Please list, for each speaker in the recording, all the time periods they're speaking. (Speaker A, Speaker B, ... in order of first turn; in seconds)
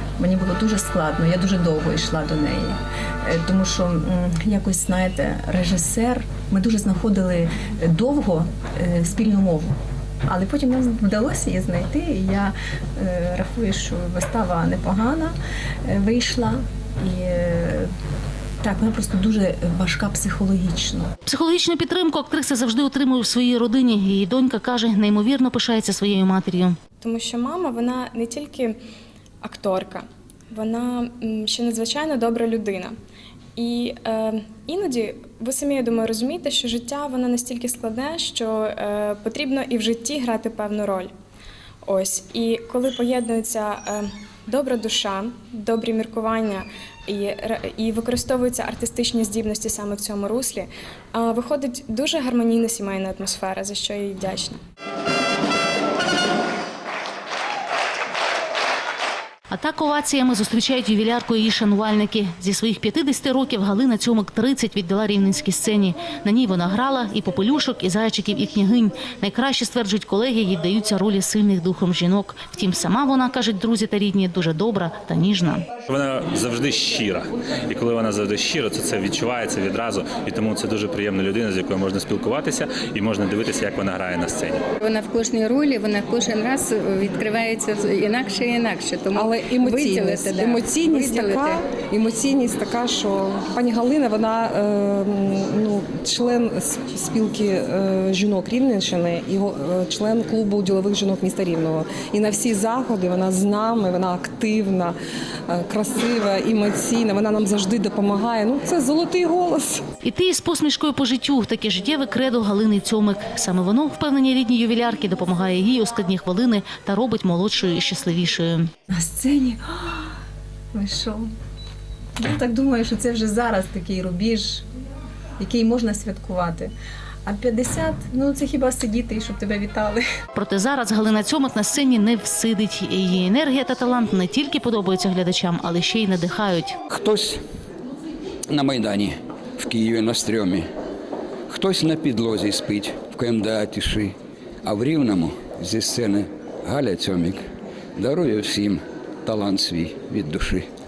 Speaker A: 0.2-9.7, 10.2-15.3, 15.8-17.9, 18.6-21.1, 118.9-120.1, 120.7-121.3, 122.2-124.6, 125.4-126.7, 127.2-130.0
Speaker B: 21.2-26.8, 59.5-75.6, 110.0-118.7, 130.3-136.8
Speaker C: 27.0-28.8, 29.4-32.9, 33.6-41.1, 41.9-54.6
Speaker D: 75.9-84.6
Speaker E: 84.8-91.7
Speaker F: 89.1-104.9, 105.5-109.8
Speaker G: 136.9-137.4, 138.5-140.7, 141.5-150.7